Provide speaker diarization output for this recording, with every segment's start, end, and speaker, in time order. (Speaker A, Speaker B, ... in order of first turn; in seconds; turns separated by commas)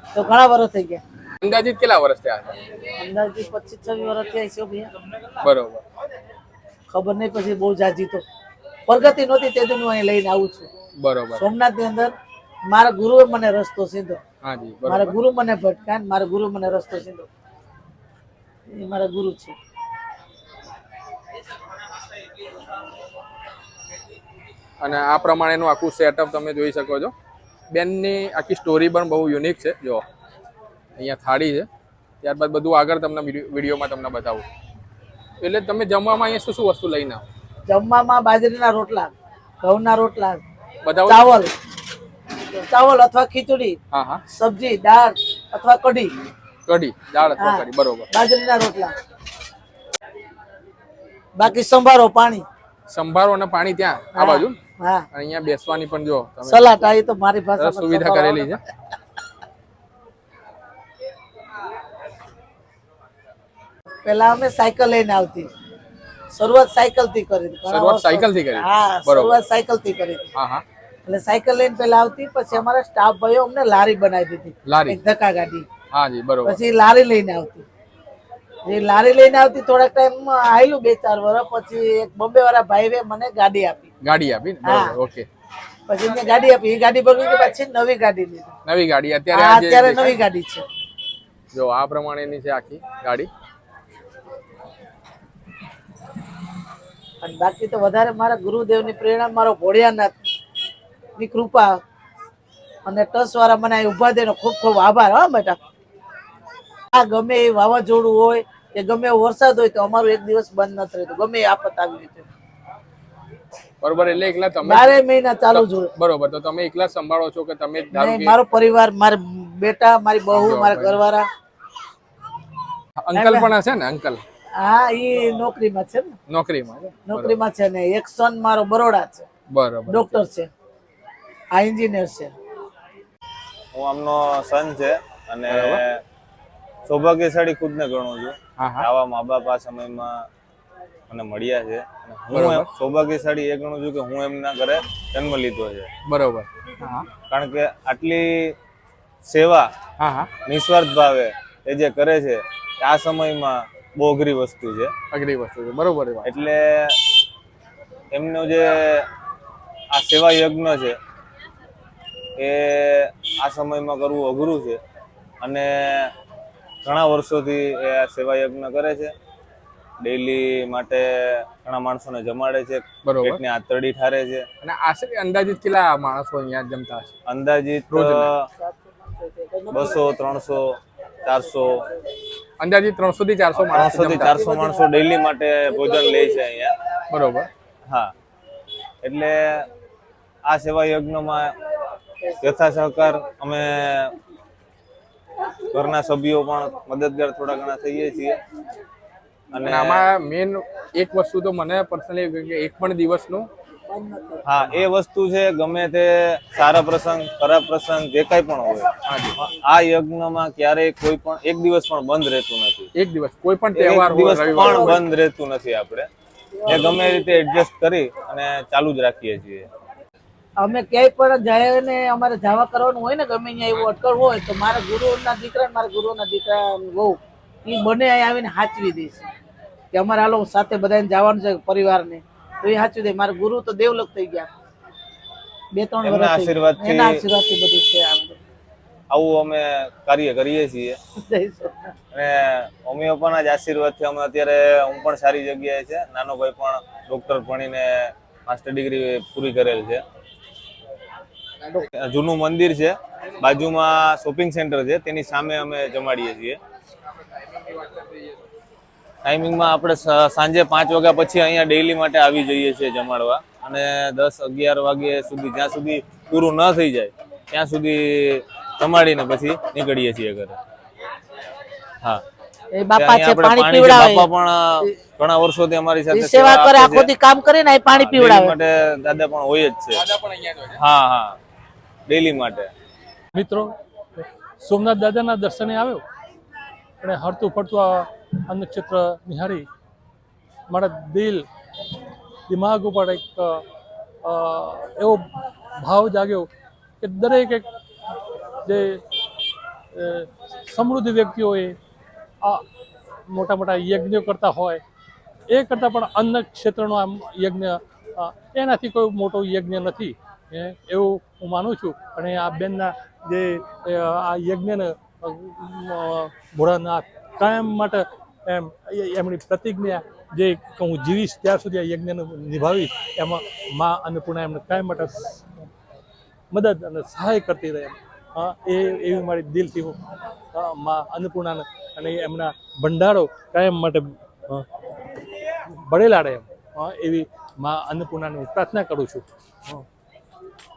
Speaker A: 0.1-1.0, Speaker B: 1.4-2.5, Speaker A: 3.0-4.9, Speaker B: 5.4-5.8, Speaker A: 6.9-8.2, Speaker A: 8.9-10.7, Speaker B: 11.0-11.4, Speaker A: 11.3-12.1, Speaker A: 12.7-14.2, Speaker B: 14.4-15.1, Speaker A: 14.9-17.3, Speaker A: 18.7-19.6, Speaker B: 24.8-27.1, Speaker B: 27.7-30.0, Speaker B: 31.0-31.7, Speaker B: 32.2-34.4, Speaker B: 35.4-37.3, Speaker A: 37.7-40.4, Speaker B: 40.8-41.3, Speaker A: 41.1-41.5, Speaker A: 42.5-43.8, Speaker B: 43.9-44.2, Speaker A: 44.3-46.1, Speaker B: 46.7-48.1, Speaker A: 47.4-48.9, Speaker A: 51.4-52.4, Speaker B: 52.9-54.5, Speaker A: 54.1-55.0, Speaker B: 55.1-56.8, Speaker A: 56.5-58.6, Speaker B: 57.6-58.6, Speaker A: 64.0-65.5, Speaker A: 66.3-70.3, Speaker B: 67.7-69.4, Speaker B: 70.3-70.6, Speaker A: 71.0-75.7, Speaker B: 74.7-75.0, Speaker B: 75.9-76.6, Speaker A: 76.4-77.7, Speaker A: 78.7-83.9, Speaker B: 84.0-85.3, Speaker A: 84.6-85.0, Speaker A: 85.9-88.5, Speaker B: 88.7-90.2, Speaker A: 89.3-90.7, Speaker B: 91.5-93.3, Speaker A: 97.2-100.2, Speaker A: 101.2-101.7, Speaker A: 102.8-105.6, Speaker A: 106.9-112.3, Speaker B: 113.8-114.9, Speaker A: 114.6-115.9, Speaker B: 115.5-118.3, Speaker A: 117.9-121.2, Speaker B: 120.3-121.0, Speaker B: 123.0-124.2, Speaker A: 123.1-123.5, Speaker A: 124.6-126.2, Speaker B: 126.3-127.3, Speaker A: 127.1-129.2, Speaker B: 129.5-130.2, Speaker A: 129.9-130.5, Speaker A: 131.5-132.3, Speaker C: 133.7-136.0, Speaker B: 135.5-135.8, Speaker C: 136.8-140.2, Speaker B: 138.6-138.9, Speaker C: 141.1-145.9, Speaker B: 142.3-142.7, Speaker B: 146.1-147.1, Speaker C: 147.3-148.5, Speaker C: 149.2-149.7, Speaker B: 150.0-150.3, Speaker C: 150.4-154.9, Speaker B: 155.1-156.3, Speaker C: 156.2-157.0, Speaker C: 158.1-159.1, Speaker C: 159.9-161.0, Speaker C: 162.4-164.8, Speaker C: 165.4-166.1, Speaker C: 166.8-169.1, Speaker C: 170.0-174.4, Speaker B: 173.0-173.4, Speaker B: 174.6-177.1, Speaker C: 177.2-178.5, Speaker B: 177.9-178.3, Speaker A: 178.6-180.0, Speaker C: 179.7-181.8, Speaker B: 182.6-184.4, Speaker C: 183.7-186.7, Speaker A: 184.4-184.8, Speaker B: 187.1-187.5, Speaker C: 189.0-189.7, Speaker C: 190.4-191.5, Speaker C: 192.4-194.1, Speaker C: 195.7-198.4, Speaker C: 199.5-200.1, Speaker B: 199.6-203.5, Speaker A: 203.9-204.4, Speaker C: 204.4-212.9, Speaker B: 209.0-209.4, Speaker B: 212.9-215.0, Speaker C: 213.7-216.1, Speaker A: 214.5-215.0, Speaker A: 216.6-217.3, Speaker C: 216.7-219.7, Speaker A: 220.6-229.3, Speaker A: 229.9-234.5, Speaker A: 235.7-238.4, Speaker C: 236.0-237.2, Speaker C: 239.1-241.0, Speaker A: 241.2-241.9, Speaker C: 242.1-250.0, Speaker C: 251.8-256.6, Speaker B: 257.1-258.4, Speaker C: 259.2-270.6, Speaker A: 272.7-274.3, Speaker C: 272.9-277.1, Speaker A: 276.1-278.5, Speaker C: 277.9-280.0, Speaker B: 280.0-280.8, Speaker C: 280.8-281.4, Speaker C: 282.1-282.7, Speaker D: 283.3-286.0, Speaker D: 287.0-289.6, Speaker D: 290.7-291.4, Speaker D: 292.5-293.6, Speaker D: 294.2-296.5, Speaker D: 297.0-297.7, Speaker D: 298.6-299.0, Speaker D: 299.9-301.8, Speaker D: 303.3-304.8, Speaker D: 305.5-325.7, Speaker D: 326.5-330.0, Speaker D: 330.5-334.7, Speaker D: 335.2-339.9